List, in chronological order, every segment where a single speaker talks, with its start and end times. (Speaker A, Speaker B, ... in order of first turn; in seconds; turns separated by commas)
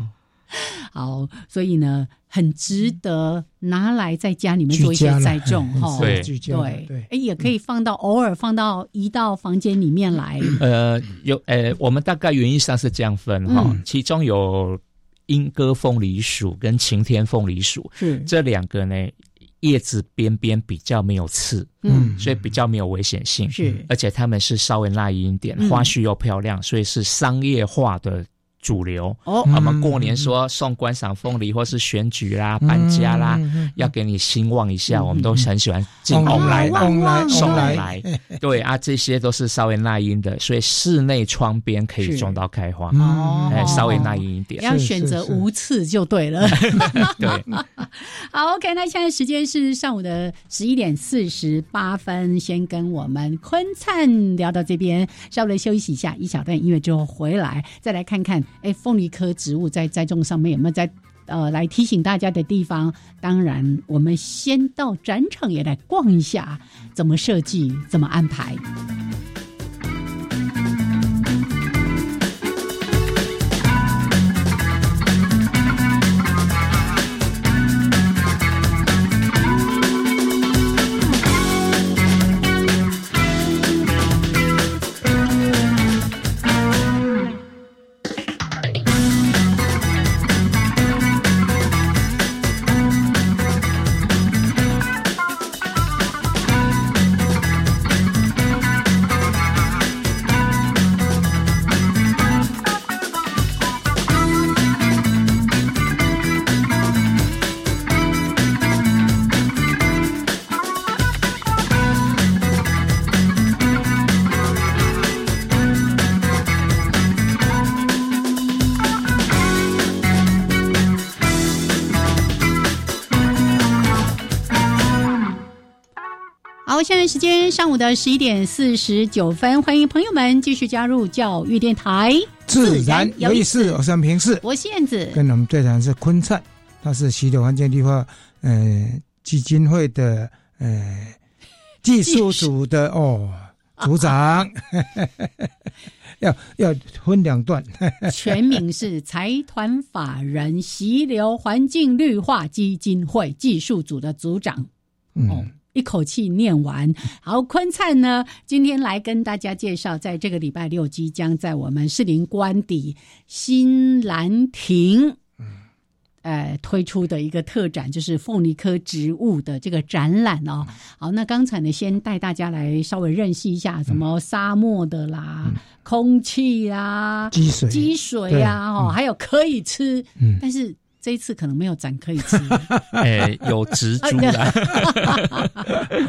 Speaker A: 0.5-10.6, Speaker B: 4.7-7.1, Speaker C: 6.0-6.3, Speaker C: 10.6-44.6, Speaker A: 13.5-13.8, Speaker A: 18.0-18.3, Speaker A: 21.8-22.1, Speaker B: 21.9-22.3, Speaker A: 23.5-23.9, Speaker A: 25.6-25.9, Speaker A: 29.2-29.5, Speaker B: 29.4-30.3, Speaker B: 32.6-33.9, Speaker A: 34.9-35.3, Speaker B: 36.1-38.4, Speaker A: 36.2-37.8, Speaker A: 42.0-42.3, Speaker B: 42.9-45.4, Speaker A: 43.0-68.6, Speaker C: 46.5-47.5, Speaker A: 126.7-133.8, Speaker B: 132.5-134.4, Speaker A: 134.4-135.2, Speaker B: 135.1-141.2, Speaker B: 141.8-145.5, Speaker A: 142.1-142.5, Speaker B: 146.2-148.4, Speaker A: 148.1-154.7, Speaker B: 155.2-155.5, Speaker A: 155.3-165.2, Speaker A: 166.2-182.7, Speaker B: 177.3-178.9, Speaker C: 183.0-185.8, Speaker A: 184.0-185.7